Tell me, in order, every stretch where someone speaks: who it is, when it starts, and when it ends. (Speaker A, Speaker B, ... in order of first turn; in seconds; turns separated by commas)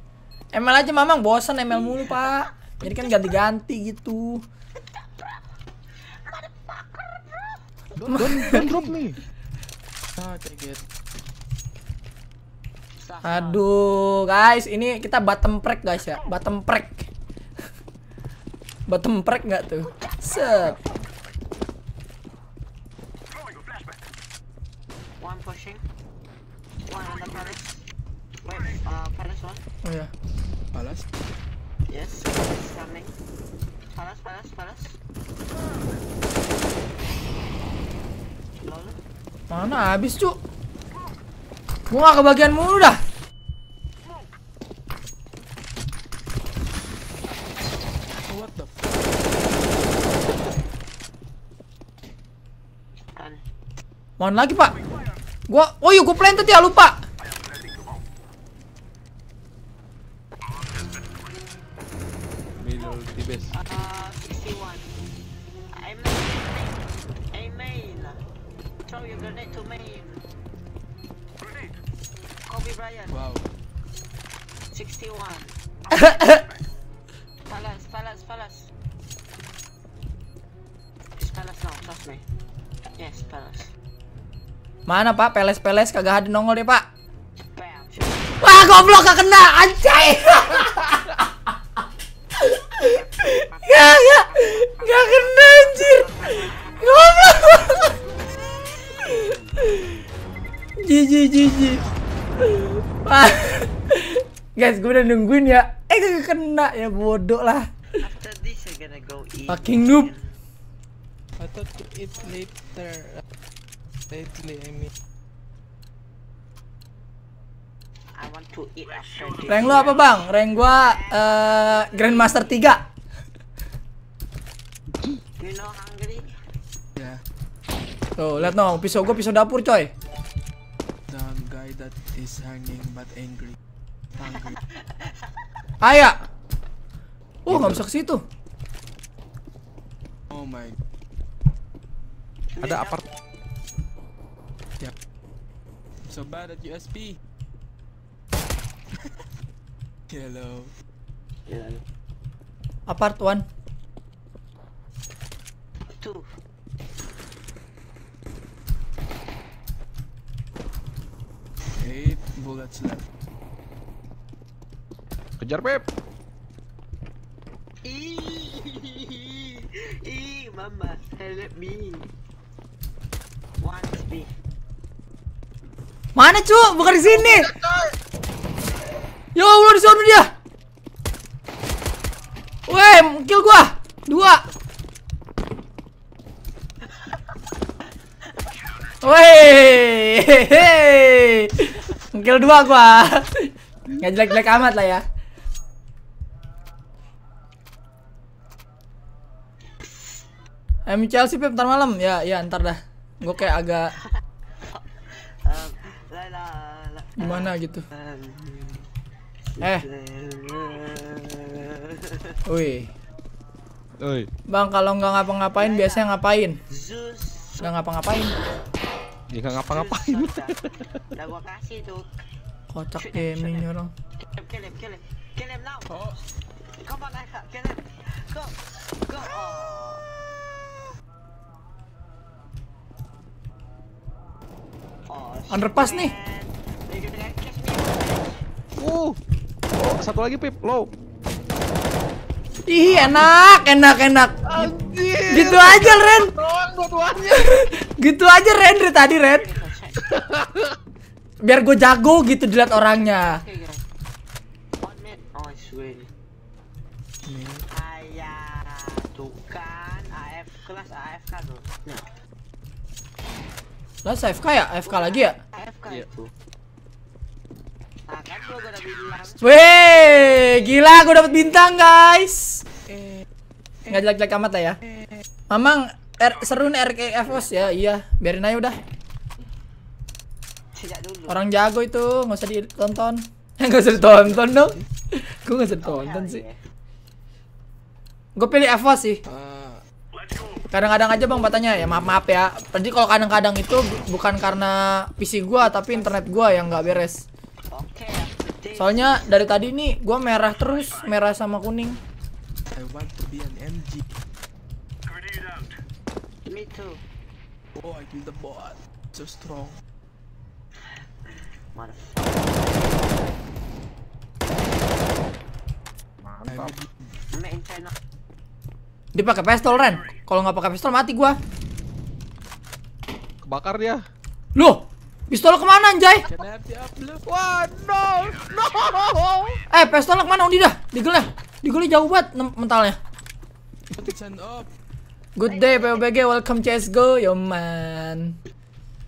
Speaker A: 0.5-4.4, Speaker B: 1.8-2.9, Speaker B: 4.8-5.5, Speaker B: 6.1-7.6, Speaker C: 8.0-8.9, Speaker A: 8.1-8.7, Speaker D: 8.1-9.2, Speaker C: 10.1-10.8, Speaker B: 13.0-13.6, Speaker A: 13.2-17.1, Speaker A: 18.9-20.8, Speaker B: 19.8-21.0, Speaker B: 25.2-25.8, Speaker B: 26.9-27.8, Speaker B: 28.4-29.6, Speaker A: 29.8-30.1, Speaker C: 30.7-31.1, Speaker B: 31.9-33.1, Speaker B: 33.9-35.0, Speaker B: 38.6-39.0, Speaker A: 39.5-40.4, Speaker A: 41.9-43.0, Speaker C: 48.2-49.0, Speaker B: 53.1-53.4, Speaker A: 54.2-54.7, Speaker A: 55.5-57.0, Speaker D: 62.6-63.5, Speaker B: 63.5-64.9, Speaker B: 65.7-68.2, Speaker B: 68.8-70.2, Speaker B: 72.5-73.2, Speaker C: 73.1-73.5, Speaker B: 74.7-76.6, Speaker A: 75.9-76.4, Speaker B: 77.5-78.7, Speaker B: 81.2-82.2, Speaker B: 83.0-83.7, Speaker A: 84.9-86.8, Speaker B: 87.4-88.4, Speaker A: 88.4-91.2, Speaker A: 92.4-98.0, Speaker B: 92.8-97.1, Speaker B: 98.4-99.3, Speaker A: 99.0-99.8, Speaker A: 100.8-101.8, Speaker A: 102.4-107.7, Speaker B: 108.0-110.3, Speaker A: 109.5-110.1, Speaker C: 111.4-113.2, Speaker C: 114.1-114.9, Speaker B: 118.1-122.4, Speaker A: 119.4-122.8, Speaker B: 125.4-126.3, Speaker C: 126.9-127.2, Speaker A: 128.2-129.9, Speaker C: 131.1-133.6, Speaker C: 134.2-134.6, Speaker B: 134.5-135.4, Speaker A: 135.8-136.2, Speaker A: 137.4-138.2, Speaker D: 137.5-137.8, Speaker C: 140.3-140.8, Speaker B: 142.5-143.0, Speaker D: 142.6-143.0, Speaker C: 146.1-147.2, Speaker C: 150.1-150.7, Speaker B: 151.5-151.8, Speaker A: 152.9-153.4, Speaker B: 155.9-156.2, Speaker C: 161.7-163.1, Speaker D: 165.4-165.8, Speaker B: 167.8-172.1, Speaker B: 173.6-174.3, Speaker A: 176.2-177.5, Speaker D: 176.9-177.9, Speaker A: 179.3-180.3, Speaker A: 182.7-184.4, Speaker A: 189.0-195.0, Speaker B: 199.8-200.2, Speaker A: 200.9-203.9, Speaker B: 204.6-208.8, Speaker A: 207.2-207.8, Speaker B: 209.5-212.3, Speaker A: 209.6-209.8, Speaker A: 212.4-212.9, Speaker D: 214.0-214.3, Speaker A: 214.5-216.6, Speaker B: 215.6-216.1, Speaker B: 216.7-217.7, Speaker A: 217.6-218.4, Speaker D: 219.3-220.8, Speaker B: 219.7-222.1, Speaker A: 222.7-223.9, Speaker B: 222.9-230.0, Speaker C: 225.9-226.2, Speaker B: 235.1-238.4, Speaker A: 235.5-236.1, Speaker D: 238.8-239.2, Speaker D: 239.7-240.9, Speaker A: 242.7-244.7, Speaker D: 242.9-243.2, Speaker D: 244.4-247.7, Speaker A: 245.3-246.3, Speaker A: 247.3-249.5, Speaker B: 249.3-250.0, Speaker D: 250.0-250.8, Speaker A: 251.4-253.4, Speaker B: 253.2-253.8, Speaker B: 254.8-256.1, Speaker C: 257.2-257.6, Speaker B: 257.7-262.1, Speaker A: 264.0-265.4, Speaker B: 264.9-266.3, Speaker B: 268.1-269.5, Speaker A: 269.4-272.6, Speaker B: 270.1-270.5, Speaker C: 272.9-273.2, Speaker A: 273.9-274.8, Speaker A: 275.5-278.8, Speaker B: 280.7-281.4, Speaker A: 281.3-286.4, Speaker B: 285.8-286.6, Speaker A: 288.4-289.2, Speaker C: 289.3-289.8, Speaker A: 290.7-297.2, Speaker C: 296.5-296.8, Speaker B: 297.7-299.5, Speaker A: 298.8-302.0, Speaker C: 302.7-304.0, Speaker B: 306.4-307.0, Speaker C: 307.7-309.8, Speaker B: 311.7-312.7, Speaker D: 316.2-316.8, Speaker C: 316.5-317.1, Speaker B: 317.3-317.9, Speaker A: 319.1-321.4, Speaker D: 323.4-324.0, Speaker A: 324.6-326.2, Speaker C: 326.2-327.2, Speaker D: 327.2-329.6, Speaker A: 329.7-333.0, Speaker C: 333.9-334.7, Speaker A: 335.4-338.4, Speaker B: 335.4-336.1